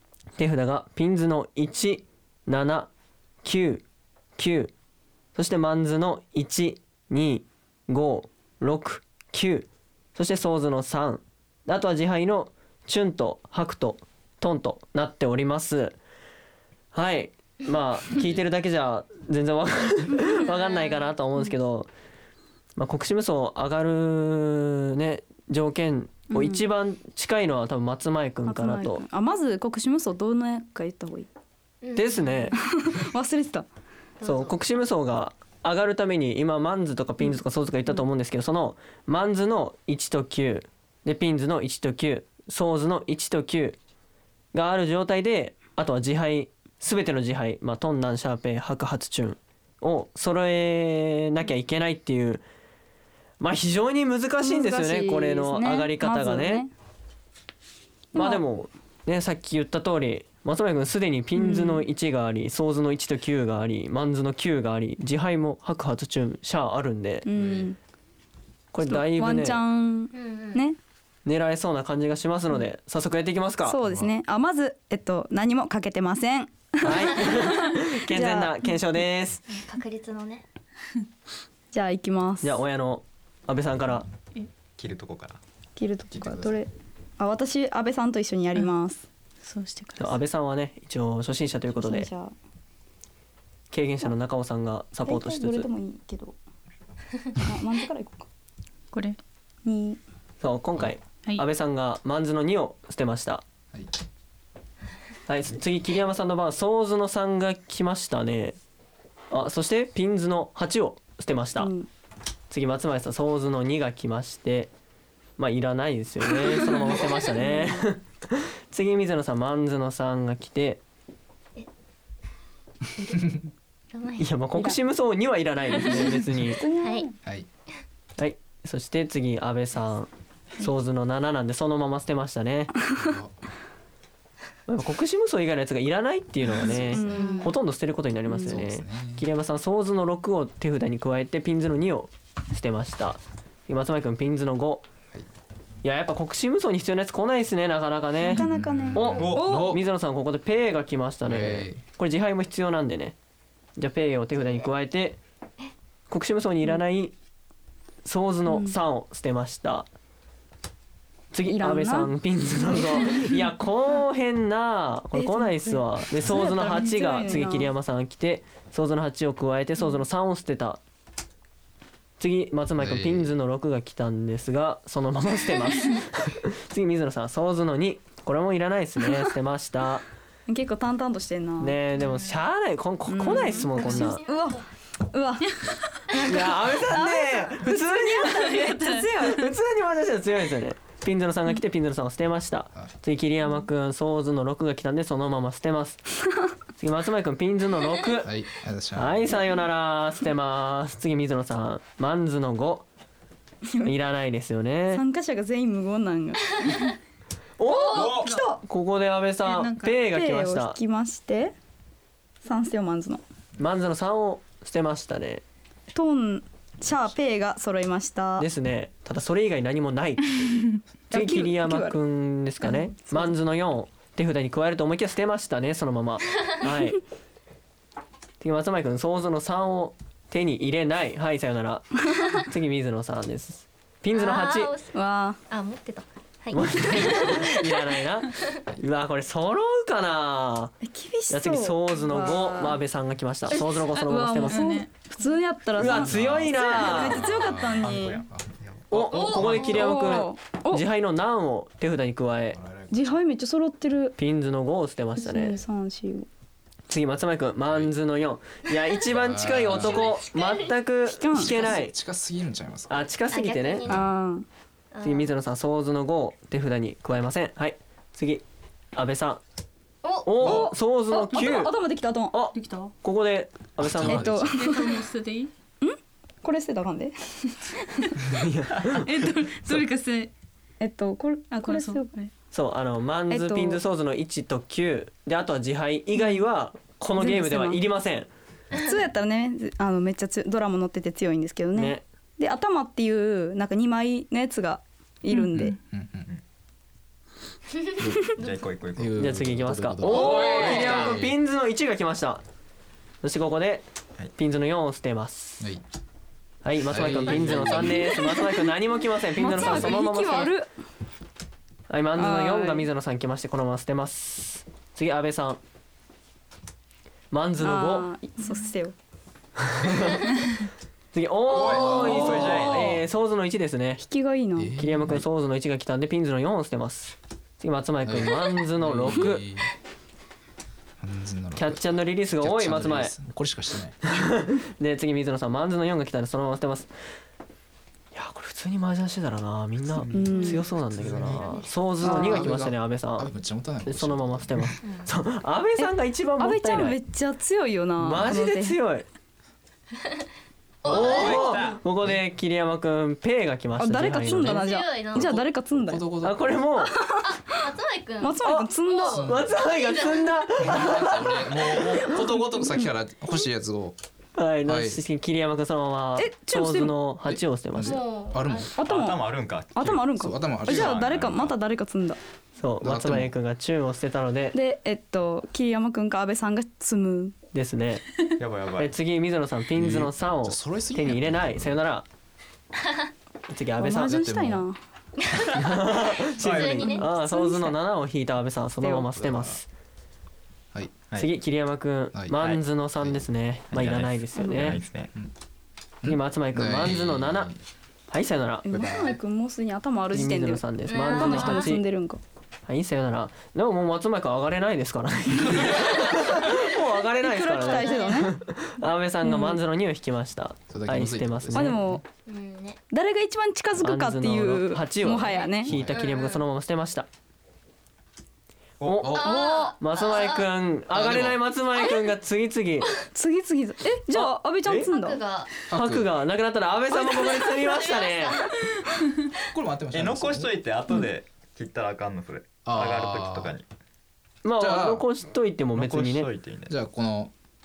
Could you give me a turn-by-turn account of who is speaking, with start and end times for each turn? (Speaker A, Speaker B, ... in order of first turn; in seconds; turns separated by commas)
Speaker A: 0.4-2.9, Speaker A: 3.4-3.8, Speaker A: 4.4-4.7, Speaker A: 5.3-16.0, Speaker A: 16.9-21.9, Speaker B: 20.3-21.1, Speaker A: 22.8-29.0, Speaker C: 26.3-26.6, Speaker C: 28.5-31.3, Speaker B: 31.8-32.6, Speaker A: 32.0-32.6, Speaker C: 32.5-33.7, Speaker B: 34.2-34.5, Speaker A: 34.2-43.8, Speaker A: 44.5-52.4, Speaker A: 53.4-56.6, Speaker C: 54.4-56.7, Speaker C: 58.1-58.4, Speaker A: 58.1-67.3, Speaker C: 61.4-61.8, Speaker C: 67.3-67.8, Speaker D: 67.3-67.7, Speaker A: 68.7-69.6, Speaker C: 68.8-70.8, Speaker B: 70.1-70.6, Speaker A: 71.3-73.8, Speaker C: 73.7-78.8, Speaker D: 73.8-74.1, Speaker A: 76.8-79.4, Speaker B: 79.5-80.4, Speaker C: 81.7-82.6, Speaker A: 82.4-84.1, Speaker E: 84.8-85.4, Speaker C: 85.8-89.0, Speaker D: 86.1-86.6, Speaker F: 89.4-90.2, Speaker A: 90.0-92.1, Speaker C: 91.8-92.3, Speaker A: 93.7-95.7, Speaker C: 95.1-96.3, Speaker C: 97.4-98.3, Speaker F: 98.9-99.2, Speaker C: 99.7-100.0, Speaker A: 100.4-103.4, Speaker A: 105.3-108.6, Speaker A: 109.3-111.7, Speaker C: 111.6-111.9, Speaker A: 112.5-114.7, Speaker A: 115.4-120.8, Speaker C: 116.5-117.8, Speaker B: 123.0-123.4, Speaker B: 123.9-124.3, Speaker A: 124.2-126.6, Speaker C: 125.8-127.2, Speaker B: 126.8-127.1, Speaker A: 128.2-132.7, Speaker D: 133.0-133.3, Speaker A: 134.7-144.8, Speaker C: 136.7-137.5, Speaker B: 137.1-137.5, Speaker C: 138.3-138.6, Speaker D: 138.5-139.3, Speaker A: 145.8-153.2, Speaker C: 148.2-149.8, Speaker D: 148.3-149.8, Speaker E: 149.0-149.6, Speaker D: 151.2-151.8, Speaker A: 153.8-155.2, Speaker A: 156.1-157.1, Speaker A: 158.1-159.9, Speaker C: 158.5-158.8, Speaker A: 161.3-170.8, Speaker C: 161.5-162.1, Speaker C: 162.7-163.2, Speaker C: 165.1-167.7, Speaker A: 172.2-180.1, Speaker D: 172.8-173.3, Speaker C: 180.5-181.8, Speaker A: 181.6-184.2, Speaker F: 182.0-182.4, Speaker C: 183.1-185.6, Speaker B: 183.7-184.6, Speaker C: 186.1-189.5, Speaker A: 186.2-196.0, Speaker F: 188.6-189.2, Speaker A: 196.8-198.3, Speaker D: 198.2-199.3, Speaker A: 198.9-202.8, Speaker A: 203.8-205.0, Speaker C: 204.9-206.9, Speaker A: 207.6-210.8, Speaker C: 207.7-208.5, Speaker E: 207.9-208.4, Speaker F: 207.9-208.6, Speaker F: 209.4-210.0, Speaker C: 210.1-211.6, Speaker C: 212.4-213.2, Speaker A: 213.6-215.4, Speaker C: 215.9-218.5, Speaker A: 218.4-227.0, Speaker C: 221.1-222.0, Speaker C: 222.6-223.3, Speaker A: 228.4-234.7, Speaker B: 234.1-238.6, Speaker C: 234.9-235.4, Speaker A: 236.5-240.8, Speaker C: 240.8-242.8, Speaker A: 241.3-244.7, Speaker C: 243.5-248.2, Speaker F: 244.4-245.1, Speaker A: 245.8-247.4, Speaker D: 245.8-248.5, Speaker E: 247.8-250.0, Speaker A: 248.9-252.6, Speaker C: 249.5-250.8, Speaker D: 252.5-253.2, Speaker C: 252.9-254.2, Speaker A: 254.2-255.6, Speaker C: 255.2-256.3, Speaker A: 256.9-261.9, Speaker D: 259.1-260.2, Speaker B: 259.7-260.7, Speaker C: 261.1-261.7, Speaker D: 261.4-263.1, Speaker A: 262.9-263.9, Speaker B: 263.3-264.1, Speaker C: 263.9-264.5, Speaker B: 264.9-265.3, Speaker A: 265.0-268.4, Speaker A: 268.9-269.4, Speaker B: 270.0-270.3, Speaker A: 270.2-271.8, Speaker C: 270.4-272.4, Speaker D: 270.4-270.7, Speaker A: 272.3-274.5, Speaker F: 272.5-272.9, Speaker D: 273.8-274.8, Speaker C: 274.0-275.0, Speaker F: 274.5-275.5, Speaker C: 275.8-278.1, Speaker A: 278.3-279.0, Speaker F: 278.9-280.3, Speaker C: 280.8-282.1, Speaker F: 281.5-282.3, Speaker A: 282.5-288.3, Speaker C: 283.3-283.8, Speaker C: 286.2-286.4, Speaker C: 287.1-287.8, Speaker C: 288.7-295.8, Speaker A: 291.8-292.0, Speaker D: 295.5-296.3, Speaker E: 298.4-299.2, Speaker D: 298.9-301.4, Speaker A: 299.2-302.4, Speaker E: 300.1-301.1, Speaker F: 300.5-300.8, Speaker A: 303.2-305.7, Speaker A: 306.6-310.5, Speaker D: 306.9-308.1, Speaker C: 308.0-308.6, Speaker C: 309.4-310.7, Speaker A: 311.9-315.6, Speaker C: 312.2-312.9, Speaker A: 317.3-318.1, Speaker C: 317.6-318.9, Speaker A: 319.6-320.2, Speaker F: 320.4-320.7, Speaker A: 321.1-324.0, Speaker E: 321.5-323.0, Speaker D: 321.5-322.9, Speaker C: 324.0-324.8, Speaker D: 324.6-325.3, Speaker A: 324.8-329.4, Speaker D: 328.0-329.7, Speaker D: 331.0-334.4, Speaker A: 331.6-333.2, Speaker A: 334.1-336.9, Speaker A: 338.1-343.3, Speaker E: 340.0-340.6, Speaker C: 340.1-340.6, Speaker D: 340.7-344.8, Speaker B: 341.4-341.7, Speaker C: 342.0-342.5, Speaker A: 343.9-347.0, Speaker B: 344.8-345.1, Speaker C: 345.8-348.8, Speaker A: 348.0-349.1, Speaker D: 350.8-352.2, Speaker B: 350.8-351.8, Speaker A: 350.9-354.7, Speaker E: 350.9-351.8, Speaker C: 353.8-356.1, Speaker B: 354.3-355.5, Speaker D: 355.7-356.7, Speaker A: 356.2-356.9, Speaker B: 357.3-362.2, Speaker C: 358.2-359.3, Speaker A: 358.4-358.7, Speaker D: 359.1-359.6, Speaker A: 359.3-361.5, Speaker D: 360.6-364.0, Speaker A: 364.4-368.0, Speaker D: 364.6-365.0, Speaker C: 366.2-366.9, Speaker D: 367.3-368.7, Speaker B: 367.8-368.7, Speaker E: 368.8-370.1, Speaker C: 368.8-369.2, Speaker C: 369.8-372.2, Speaker D: 370.1-371.0, Speaker E: 370.6-371.6, Speaker A: 372.6-374.6, Speaker D: 372.8-373.3, Speaker C: 374.5-377.4, Speaker A: 377.5-378.1, Speaker E: 378.4-378.9, Speaker A: 378.8-382.1, Speaker D: 379.8-381.8, Speaker A: 383.5-384.2, Speaker C: 383.8-384.8, Speaker D: 384.1-384.6, Speaker A: 385.5-389.7, Speaker B: 386.2-387.1, Speaker E: 386.4-386.9, Speaker C: 386.4-387.8, Speaker C: 388.8-389.1, Speaker D: 389.1-389.6, Speaker D: 390.7-391.0, Speaker A: 391.1-394.8, Speaker D: 392.1-393.3, Speaker E: 393.7-395.1, Speaker C: 394.4-394.8, Speaker D: 396.0-397.6, Speaker A: 396.1-397.5, Speaker A: 398.1-398.7, Speaker C: 398.6-402.2, Speaker B: 398.8-399.2, Speaker A: 400.1-401.8, Speaker B: 400.9-401.8, Speaker A: 402.7-411.8, Speaker C: 407.2-408.4, Speaker B: 407.5-408.4, Speaker C: 409.2-409.6, Speaker D: 410.7-412.0, Speaker C: 411.5-412.0, Speaker B: 412.3-412.8, Speaker C: 412.9-415.7, Speaker A: 413.8-417.1, Speaker B: 415.1-416.4, Speaker D: 415.7-416.1, Speaker A: 418.8-422.9, Speaker E: 418.8-419.1, Speaker D: 418.9-419.4, Speaker B: 419.1-420.5, Speaker C: 419.2-419.8, Speaker D: 420.9-421.4, Speaker C: 423.1-425.2, Speaker A: 424.1-424.9, Speaker B: 424.9-425.5, Speaker D: 425.7-426.1, Speaker A: 425.7-428.4, Speaker B: 426.9-428.6, Speaker D: 429.5-430.6, Speaker E: 429.9-433.7, Speaker D: 432.6-433.5, Speaker A: 434.4-436.3, Speaker D: 434.6-435.1, Speaker E: 435.8-436.7, Speaker D: 436.7-437.3